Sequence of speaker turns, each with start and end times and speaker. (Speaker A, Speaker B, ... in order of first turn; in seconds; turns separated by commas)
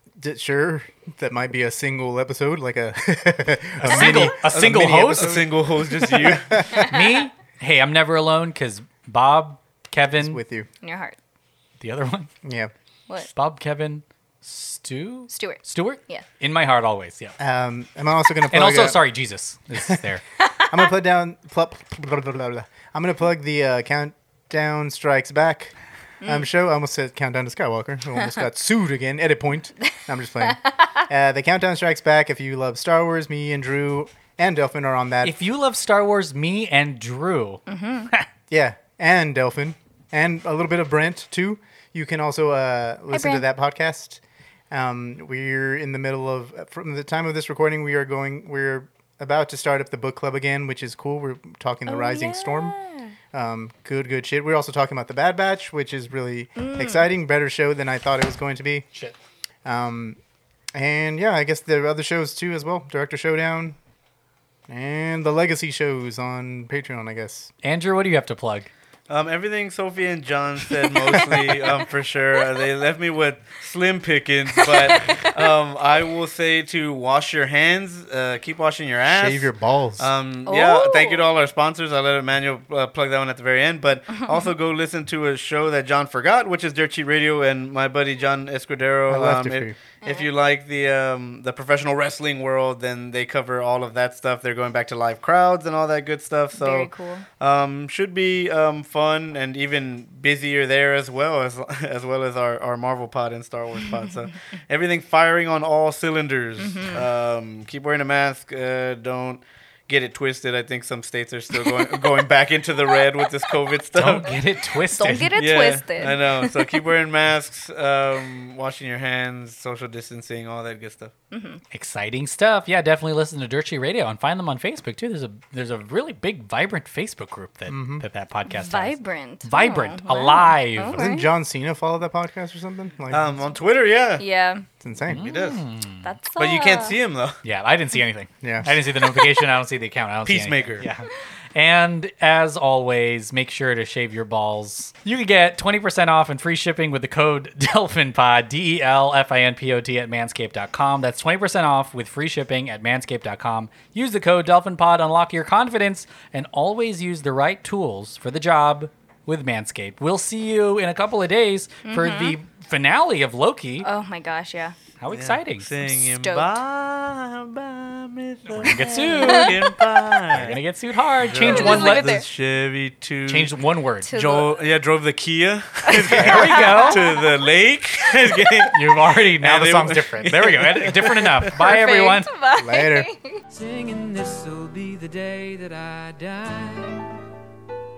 Speaker A: 0.2-5.3, Speaker B: 3.8-5.5, Speaker C: 4.3-6.6, Speaker A: 6.1-6.6, Speaker B: 6.6-10.4, Speaker D: 6.7-7.2, Speaker A: 10.2-10.7, Speaker D: 10.8-11.2, Speaker B: 11.8-12.3, Speaker A: 12.4-12.7, Speaker B: 13.2-17.4, Speaker D: 15.3-16.2, Speaker A: 17.4-19.0, Speaker B: 18.5-20.2, Speaker A: 19.7-20.0, Speaker A: 20.7-35.4, Speaker B: 35.2-38.3, Speaker D: 37.7-38.1, Speaker A: 38.5-52.7, Speaker D: 43.1-43.4, Speaker D: 51.9-53.1, Speaker A: 53.3-58.9, Speaker D: 56.6-57.1, Speaker A: 59.6-60.2, Speaker A: 60.7-63.8, Speaker A: 64.7-67.5, Speaker B: 67.6-68.7, Speaker C: 69.1-114.3, Speaker A: 71.1-71.5, Speaker D: 74.6-75.3, Speaker A: 79.0-80.1, Speaker D: 80.5-81.2, Speaker A: 89.1-89.7, Speaker D: 90.0-90.3, Speaker D: 96.5-97.2, Speaker D: 106.6-107.0, Speaker D: 111.5-112.1, Speaker B: 113.9-115.3, Speaker D: 114.9-116.8, Speaker C: 115.3-121.1, Speaker D: 121.3-121.6, Speaker B: 121.7-131.0, Speaker A: 127.7-128.1, Speaker D: 128.5-131.3, Speaker A: 130.9-133.4, Speaker C: 133.1-134.2, Speaker D: 134.2-134.7, Speaker A: 134.8-135.3, Speaker B: 135.1-136.1, Speaker C: 135.2-135.6, Speaker D: 136.0-137.0, Speaker C: 136.3-137.4, Speaker B: 137.4-163.9, Speaker A: 138.4-138.8, Speaker C: 140.2-140.9, Speaker D: 161.8-162.4, Speaker D: 163.8-164.8, Speaker B: 165.0-165.7, Speaker C: 165.1-170.6, Speaker D: 165.8-166.5, Speaker B: 168.5-169.8, Speaker D: 168.6-169.8, Speaker B: 170.3-172.2, Speaker C: 171.2-173.6, Speaker D: 171.3-172.2, Speaker B: 173.2-174.1, Speaker D: 174.0-174.6, Speaker C: 174.1-178.8, Speaker D: 175.8-177.3, Speaker B: 176.1-177.0, Speaker D: 178.1-178.5, Speaker B: 178.7-182.3, Speaker C: 179.4-181.5, Speaker D: 181.6-183.4, Speaker A: 182.6-183.1, Speaker E: 183.5-187.2